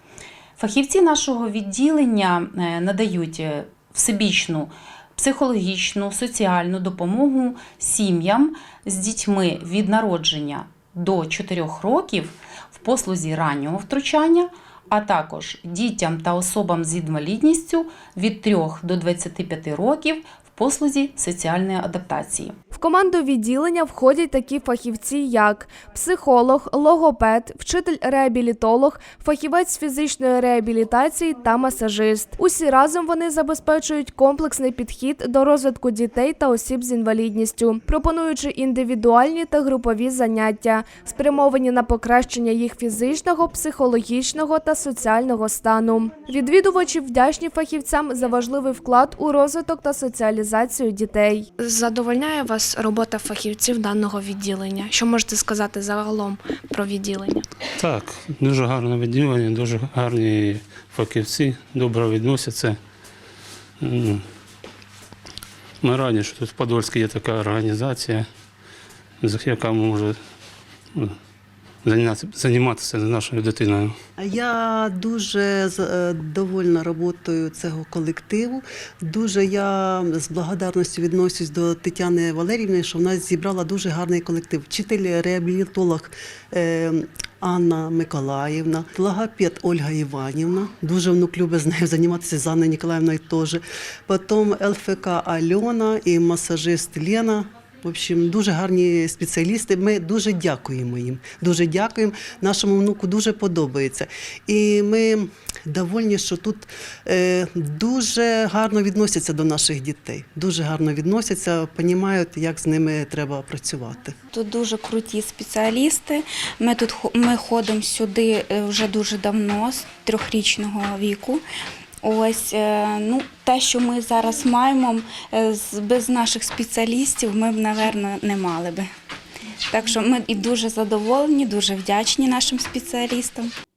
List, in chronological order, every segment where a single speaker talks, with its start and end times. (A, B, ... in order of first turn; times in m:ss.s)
0:00.6-0:22.6 A
0:22.7-0:51.5 B
0:51.6-0:57.4 C
0:57.8-1:02.8 D
1:03.8-1:04.2 D
1:05.8-1:08.2 D
1:09.2-1:10.2 D
1:11.8-1:14.0 D
1:14.2-1:54.2 E
1:54.3-2:01.4 F
2:02.0-2:08.9 F
2:09.7-2:13.5 F